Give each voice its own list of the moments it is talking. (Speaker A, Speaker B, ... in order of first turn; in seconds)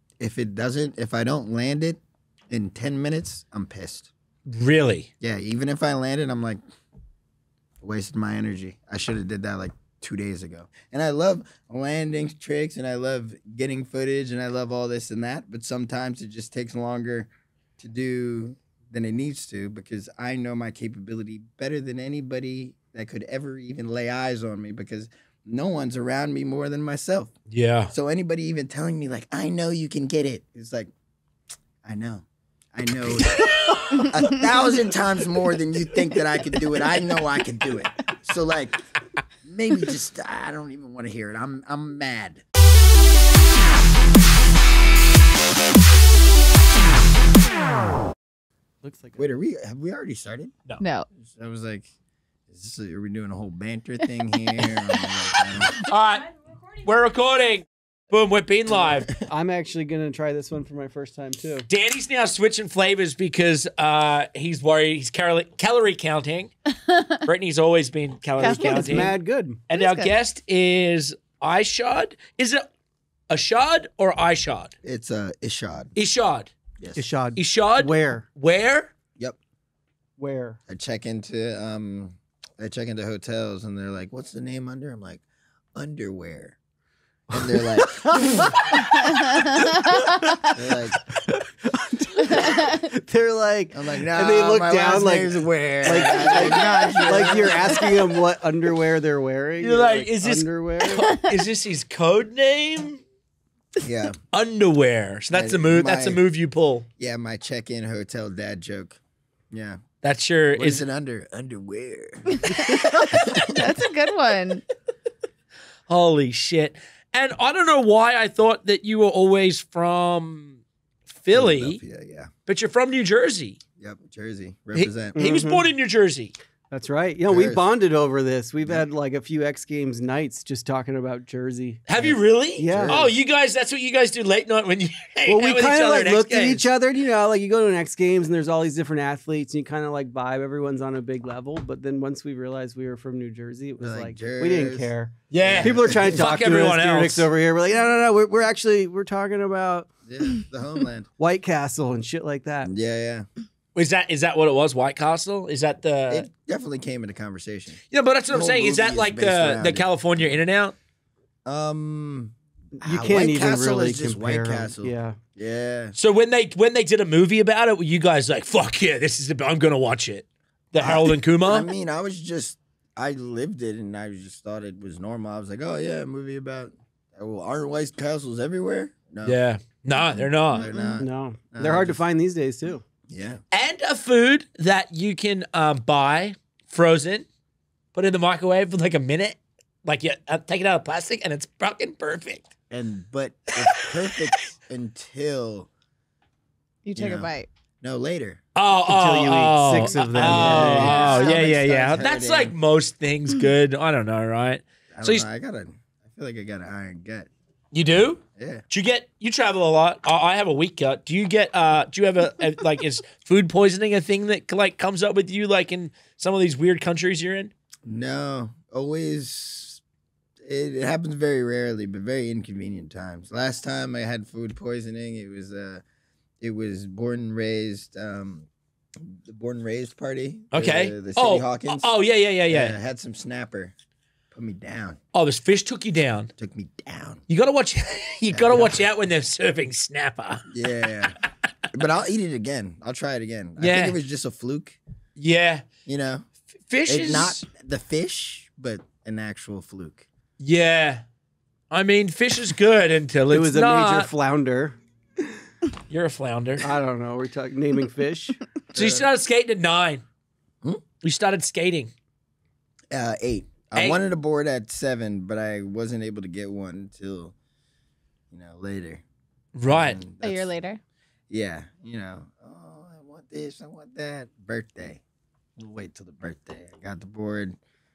Speaker A: 0.2-4.1, 5.2-6.6, 7.8-27.3, 27.9-30.9, 31.8-38.8, 39.4-42.4, 49.2-50.6, 51.1-51.9, 52.5-55.8, 74.8-75.9, 76.8-77.0, 80.7-85.2, 85.7-86.6, 87.3-88.6, 90.5-91.0, 93.7-97.9, 103.8-104.2, 105.3-106.2, 107.0-109.0, 109.5-109.8, 110.5-113.6, 121.3-122.3, 123.8-125.2, 127.2-127.7, 132.7-133.0, 143.8-144.9, 145.4-146.2, 150.1-151.1, 152.6-153.3, 156.1-157.8, 158.3-160.4, 161.4-165.9, 170.8-179.4, 180.0-182.0, 183.1-183.4, 192.7-195.7, 196.9-198.4, 200.2-202.6, 204.9-207.3, 208.3-208.7, 217.8-219.8, 220.4-225.8, 226.4-231.9, 232.5-233.7, 234.3-235.0, 236.4-237.2, 238.3-238.8, 240.5-241.2, 241.7-244.8, 245.8-246.3, 246.9-250.1, 258.7-259.1, 262.9-267.3, 268.3-269.0, 269.7-270.5, 271.3-275.0, 275.6-277.6
Speaker B: 4.5-5.1, 27.5-27.9, 55.8-59.1, 61.7-66.5, 67.2-69.1, 69.7-72.7, 73.3-74.7, 76.0-76.5, 77.3-78.9, 99.6-103.0, 104.3-106.9, 110.0-110.8, 115.9-121.8, 122.5-123.6, 124.7-126.3, 131.9-136.7, 145.3-147.3, 153.7-156.3, 157.9-160.7, 165.9-171.7, 179.2-180.7, 183.5-187.3, 187.9-192.5, 193.7-194.4, 198.5-205.2, 207.7-217.5, 230.5-232.8, 235.1-236.3, 237.3-240.5, 243.6-244.0, 245.2-245.7, 246.7-247.4, 250.4-251.0, 251.7-254.1, 255.9-256.6, 258.7-260.0, 261.0-261.9, 269.5-270.0
Speaker C: 48.8-49.2, 59.3-61.7, 68.5-69.6, 76.9-78.2, 80.2-80.6, 87.4-101.2, 125.1-125.7, 126.7-131.9, 132.6-133.1, 135.3-149.9, 151.2-152.7, 162.7-165.2, 181.0-182.8, 198.8-201.2, 253.3-254.8, 256.6-258.4
Speaker D: 50.8-51.1, 68.4-69.1, 69.7-70.1, 112.3-114.6, 180.6-181.0, 196.8-197.5, 200.7-201.3, 270.2-270.8